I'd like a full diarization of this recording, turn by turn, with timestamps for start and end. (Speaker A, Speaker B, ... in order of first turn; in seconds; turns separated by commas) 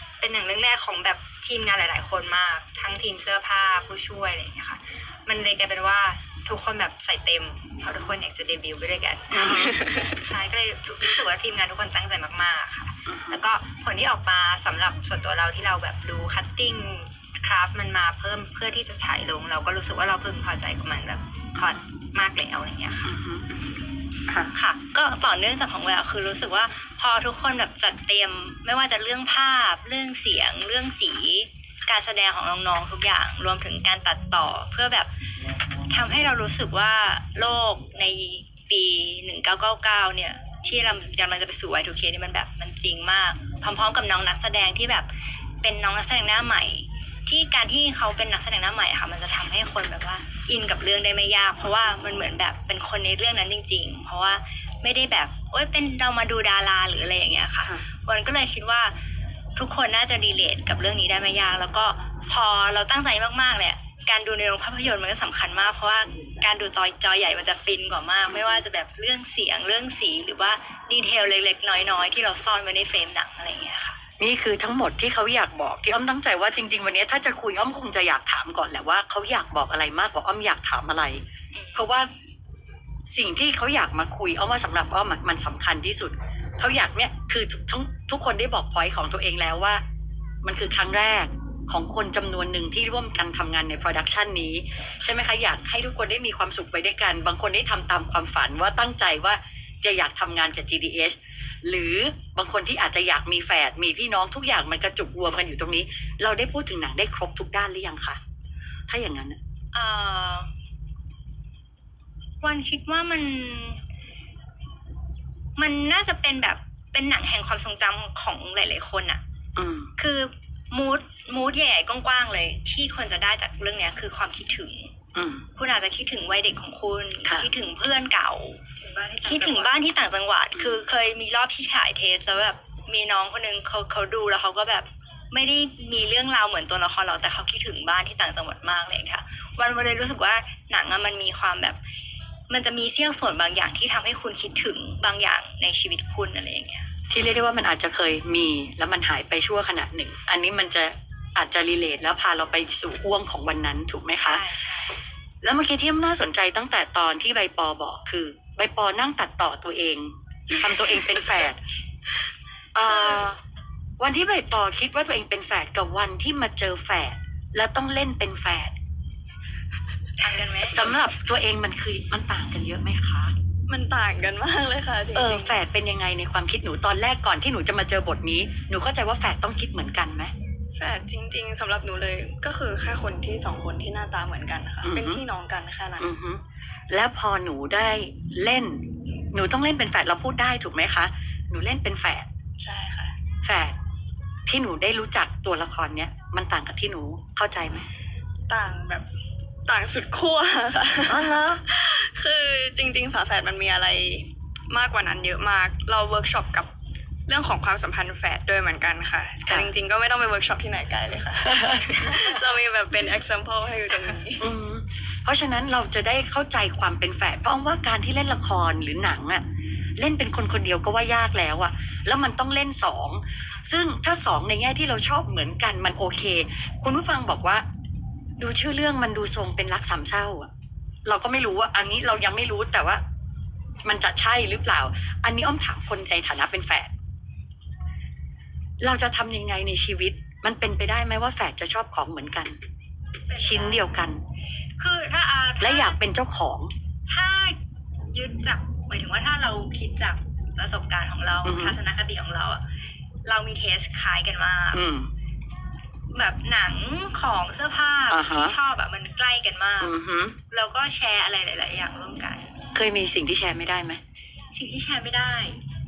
Speaker A: 0.2-23.1, Speaker B: 9.3-9.8, Speaker C: 9.6-10.1, Speaker B: 13.1-13.4, Speaker B: 23.0-23.5, Speaker D: 24.5-35.1, Speaker D: 35.9-45.1, Speaker D: 45.6-58.9, Speaker D: 59.5-74.0, Speaker B: 68.3-68.6, Speaker B: 74.2-81.2, Speaker D: 81.5-81.9, Speaker B: 81.7-82.1, Speaker B: 83.1-89.8, Speaker B: 90.4-108.2, Speaker B: 108.9-109.4, Speaker D: 109.7-110.5, Speaker D: 112.4-113.8, Speaker D: 115.5-119.2, Speaker B: 119.5-119.9, Speaker D: 120.0-124.9, Speaker B: 125.1-125.5, Speaker D: 125.5-128.6, Speaker A: 128.8-129.7, Speaker D: 129.2-141.8, Speaker D: 142.5-146.9, Speaker B: 147.1-154.4, Speaker D: 154.1-154.9, Speaker B: 155.4-161.6, Speaker B: 162.7-163.4, Speaker B: 164.0-168.7, Speaker D: 170.2-171.0, Speaker B: 170.7-173.3, Speaker C: 173.7-175.5, Speaker B: 175.1-180.3, Speaker C: 180.8-186.1, Speaker B: 184.8-185.2, Speaker B: 186.0-192.3, Speaker C: 192.6-193.2, Speaker B: 193.4-193.7, Speaker B: 194.4-197.9, Speaker C: 198.5-199.1, Speaker C: 199.7-206.7, Speaker B: 201.1-201.6, Speaker C: 207.3-214.4, Speaker B: 211.5-211.8, Speaker B: 214.4-219.4, Speaker B: 220.0-227.6, Speaker B: 228.4-230.5, Speaker B: 231.1-233.0, Speaker B: 233.8-236.9, Speaker B: 238.8-242.6, Speaker B: 243.3-244.2, Speaker D: 243.3-243.8, Speaker D: 244.8-246.0, Speaker B: 245.6-246.7, Speaker D: 247.1-247.6, Speaker D: 248.1-252.6, Speaker B: 251.4-251.8, Speaker D: 253.2-254.8, Speaker B: 254.7-255.1, Speaker D: 256.1-259.9, Speaker B: 258.1-258.5, Speaker B: 259.8-260.4, Speaker D: 260.5-262.6, Speaker B: 262.7-264.0, Speaker D: 264.5-265.6